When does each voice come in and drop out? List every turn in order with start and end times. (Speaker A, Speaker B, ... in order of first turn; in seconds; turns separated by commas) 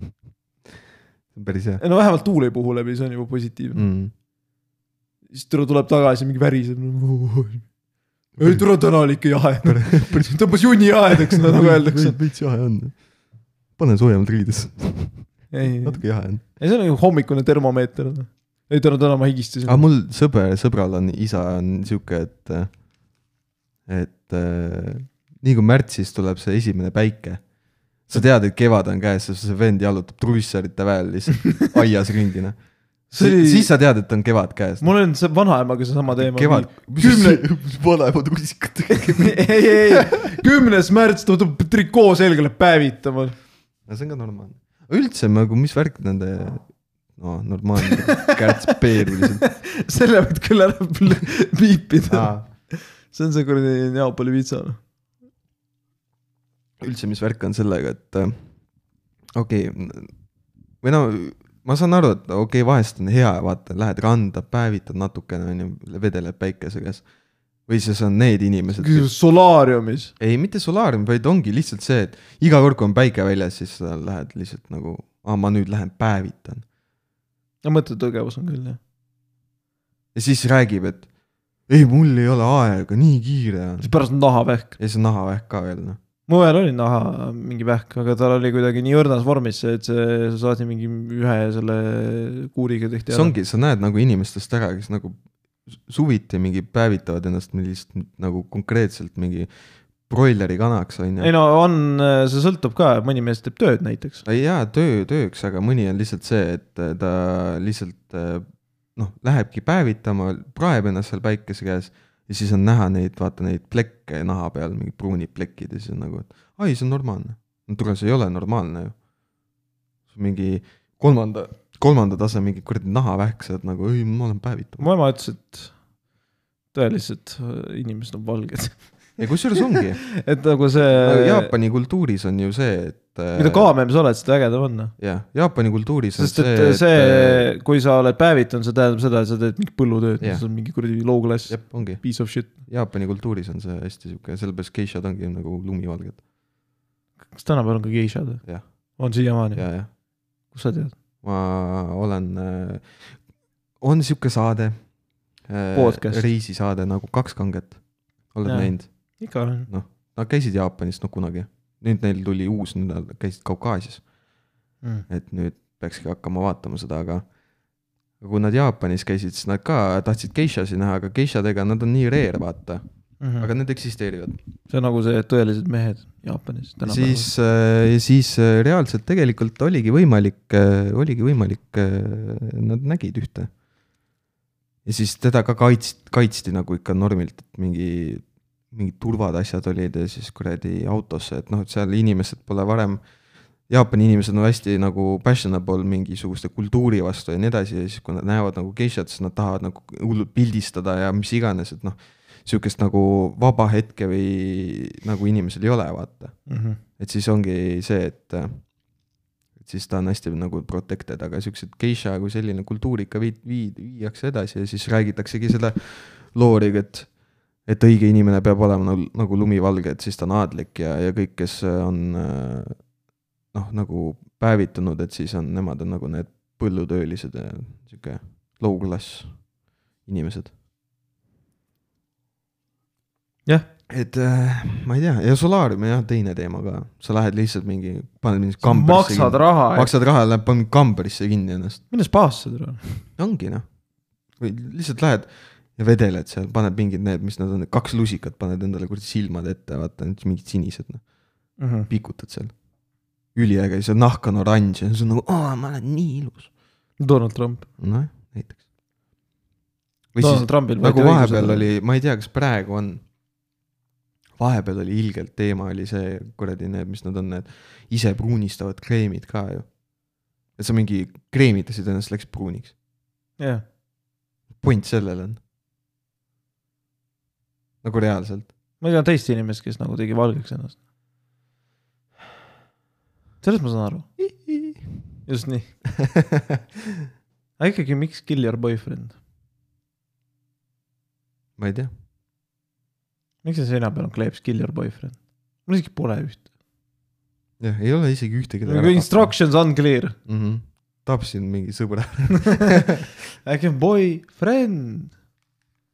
Speaker A: 1.3-1.8, Speaker B: 1.8-3.8, Speaker A: 3.8-4.1, Speaker B: 5.3-7.7, Speaker B: 8.4-12.2, Speaker A: 8.4-8.7, Speaker A: 9.6-10.5, Speaker A: 11.1-13.0, Speaker A: 13.8-16.4, Speaker B: 15.5-19.9, Speaker A: 19.7-22.7, Speaker A: 23.9-27.4, Speaker A: 28.1-32.6, Speaker B: 33.1-33.7, Speaker A: 33.2-34.9, Speaker B: 34.8-37.4, Speaker A: 36.1-40.1, Speaker B: 38.9-43.3, Speaker A: 43.9-49.5, Speaker B: 47.9-54.8, Speaker A: 52.1-52.5, Speaker A: 56.8-58.4, Speaker A: 59.4-60.1, Speaker A: 60.8-67.0, Speaker A: 67.7-69.1, Speaker B: 68.8-70.1, Speaker A: 70.2-76.7, Speaker B: 77.6-78.8, Speaker A: 80.2-81.1, Speaker A: 81.7-83.9, Speaker B: 83.8-84.8, Speaker A: 84.8-86.0, Speaker B: 86.3-93.3, Speaker A: 93.1-99.5, Speaker A: 100.0-101.3, Speaker B: 101.2-104.2, Speaker A: 104.2-108.5, Speaker A: 109.0-119.0, Speaker A: 120.1-124.9, Speaker B: 124.8-125.7, Speaker B: 126.7-129.2, Speaker A: 129.2-130.1, Speaker B: 129.7-131.5, Speaker A: 130.9-133.7, Speaker B: 133.4-134.9, Speaker A: 135.0-137.5, Speaker B: 136.2-142.6, Speaker A: 140.2-140.5, Speaker A: 141.5-146.2, Speaker B: 147.3-149.7, Speaker A: 148.4-149.0, Speaker A: 149.5-149.9, Speaker B: 150.5-150.9, Speaker A: 151.2-153.2, Speaker A: 153.8-154.9, Speaker A: 155.5-164.0, Speaker B: 155.7-156.3, Speaker B: 158.4-159.7, Speaker B: 164.8-165.1, Speaker A: 165.1-167.3, Speaker A: 168.2-172.8, Speaker B: 173.2-173.5, Speaker A: 173.4-174.4, Speaker B: 174.7-177.3, Speaker A: 176.8-183.5, Speaker A: 184.8-193.0, Speaker A: 193.7-206.4, Speaker B: 206.5-206.8, Speaker A: 207.0-208.7, Speaker A: 209.6-217.1, Speaker A: 217.7-222.9, Speaker A: 223.5-229.5, Speaker A: 230.0-230.5, Speaker A: 233.9-241.8, Speaker B: 238.6-239.9, Speaker B: 241.9-243.1, Speaker A: 243.2-243.6, Speaker A: 244.4-251.0, Speaker B: 251.6-251.9, Speaker A: 251.9-252.6, Speaker A: 253.3-256.5, Speaker B: 257.0-257.7, Speaker A: 257.8-258.6, Speaker A: 260.1-263.0, Speaker B: 260.2-261.7, Speaker A: 264.4-269.8, Speaker A: 270.6-272.7, Speaker B: 273.4-273.6, Speaker A: 274.6-275.4, Speaker A: 277.8-278.5, Speaker B: 278.8-280.8, Speaker B: 283.4-284.1, Speaker A: 284.2-284.9, Speaker B: 285.2-285.7, Speaker A: 286.0-286.6, Speaker B: 287.6-289.1, Speaker A: 291.6-291.9, Speaker B: 293.4-296.4, Speaker A: 297.6-299.3, Speaker B: 298.7-300.1, Speaker A: 300.3-303.0, Speaker B: 303.4-305.1